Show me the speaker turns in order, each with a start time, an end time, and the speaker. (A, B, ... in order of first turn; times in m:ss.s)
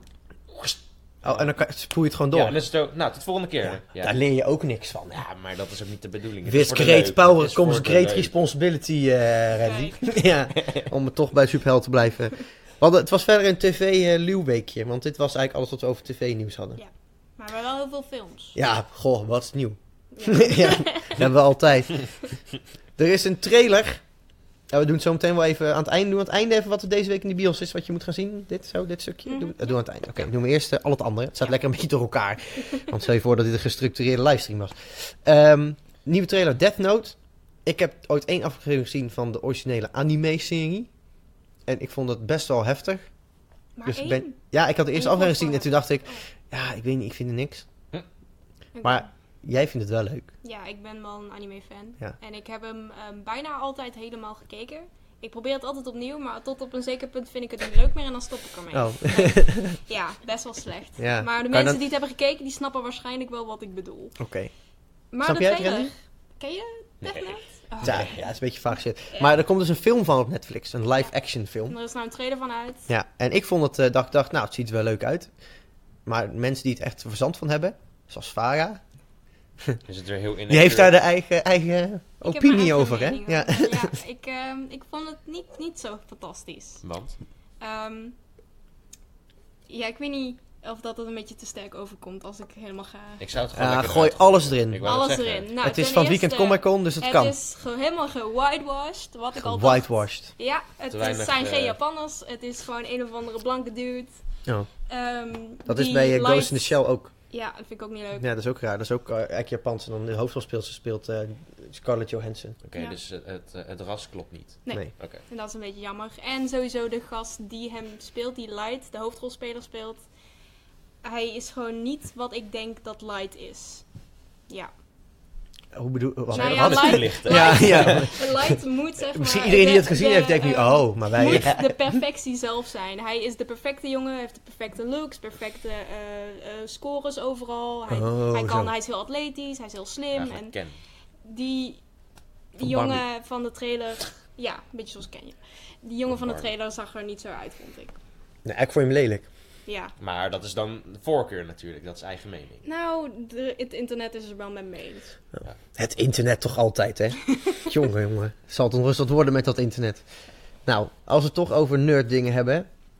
0:00.5-0:01.5 A
0:01.2-0:02.6 B
0:02.3-0:04.2 A
0:03.6-0:05.2 B
0:05.1-0:08.3 A
0:06.4-0:16.8 B
0:09.6-0:10.0 C
0:10.6-0:10.8 A
0:16.8-0:18.6 C
0:18.5-0:22.1 B
0:20.1-0:21.2 C
0:23.0-0:24.0 B
0:24.7-0:40.9 B
0:29.2-0:29.6 C
0:41.6-0:43.0 B
0:43.8-0:44.4 C
0:43.8-0:47.6 B
0:44.9-0:46.2 C
0:48.7-0:49.1 C
0:48.8-0:50.3 B
0:50.4-1:04.2 C
0:58.7-0:59.8 B
1:01.0-1:01.8 B
1:04.2-1:04.5 B
1:05.1-1:08.2 C
1:05.2-1:05.9 B
1:07.0-1:08.1 A
1:07.8-1:11.8 B
1:11.7-1:12.9 C
1:12.9-1:15.3 B
1:16.0-1:18.8 B
1:19.8-1:20.9 A
1:20.5-1:23.9 B
1:22.2-1:26.8 C
1:26.8-1:27.2 A
1:27.6-1:28.2 C
1:29.7-1:33.2 C
1:33.2-1:35.5 A
1:33.5-1:34.9 B
1:34.8-1:44.2 C
1:35.6-1:37.3 B
1:39.4-1:40.3 B
1:40.9-1:41.8 A
1:44.9-1:46.8 C
1:45.6-1:47.1 B
1:47.3-1:48.3 C
1:48.2-1:52.6 B
1:52.6-1:55.2 A
1:54.6-2:00.0 C
2:01.0-2:03.9 C
2:05.7-2:08.6 B
2:06.3-2:08.2 A
2:06.3-2:20.6 C
2:09.1-2:11.9 B
2:17.9-2:18.7 B
2:20.1-2:20.7 A
2:21.2-2:21.8 C
2:22.5-2:27.9 C
2:22.6-2:23.0 B
2:26.1-2:26.5 A
2:28.4-2:29.2 B
2:29.6-2:29.9 C
2:30.0-2:32.6 A
2:32.6-2:35.1 C
2:35.4-2:40.0 B
2:37.3-2:37.6 C
2:40.6-2:42.7 B